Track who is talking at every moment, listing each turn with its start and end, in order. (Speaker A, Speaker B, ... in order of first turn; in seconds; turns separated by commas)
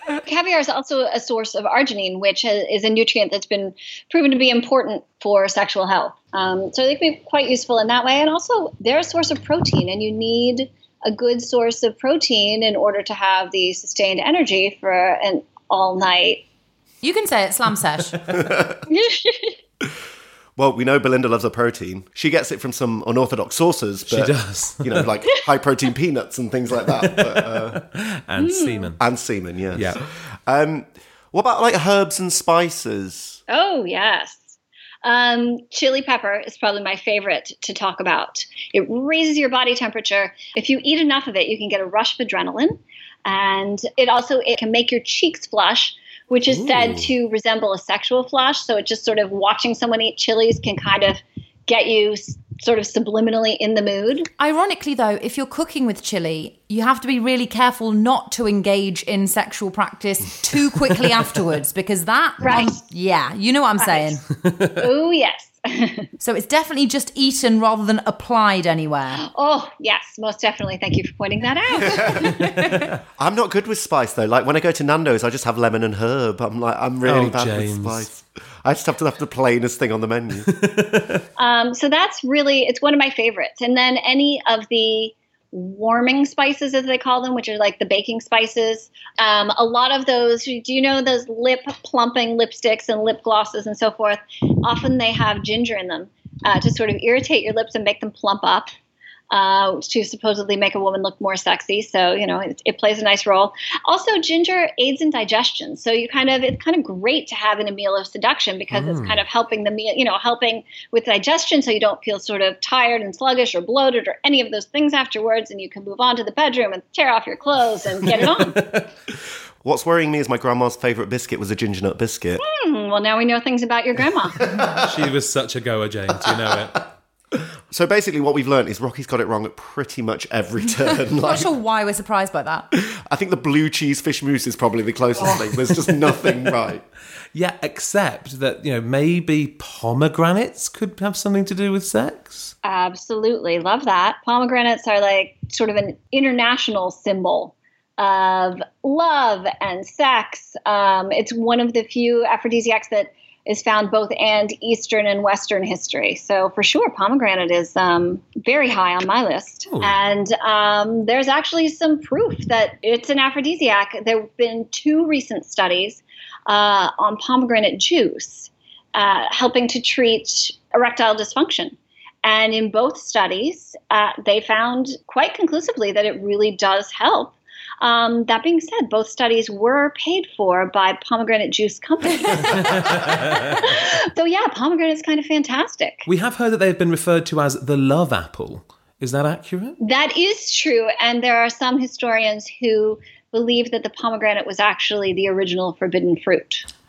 Speaker A: 0.2-16.4, Speaker B: 17.0-18.1, Speaker C: 18.4-18.8, Speaker A: 18.9-19.6, Speaker C: 20.6-27.8, Speaker D: 24.1-25.1, Speaker D: 27.0-29.0, Speaker A: 28.4-28.9, Speaker C: 29.0-33.4, Speaker D: 29.7-30.0, Speaker A: 33.5-54.3, Speaker B: 54.4-64.2, Speaker A: 62.4-62.8, Speaker A: 63.8-64.2, Speaker D: 64.4-64.7, Speaker A: 64.8-66.1, Speaker B: 66.2-69.2, Speaker A: 69.2-72.3, Speaker D: 71.8-73.0, Speaker C: 73.2-80.5, Speaker D: 77.0-78.1, Speaker D: 80.5-81.2, Speaker A: 81.4-98.7, Speaker A: 99.3-118.5, Speaker D: 108.7-109.2, Speaker D: 118.0-118.9, Speaker C: 119.6-122.4, Speaker A: 122.4-124.5, Speaker D: 124.6-126.9, Speaker C: 127.7-131.6, Speaker B: 130.9-132.7, Speaker C: 132.7-136.8, Speaker D: 135.2-136.5, Speaker D: 137.3-142.5, Speaker A: 142.6-186.1, Speaker D: 159.7-159.9, Speaker D: 186.1-189.8, Speaker A: 189.8-196.6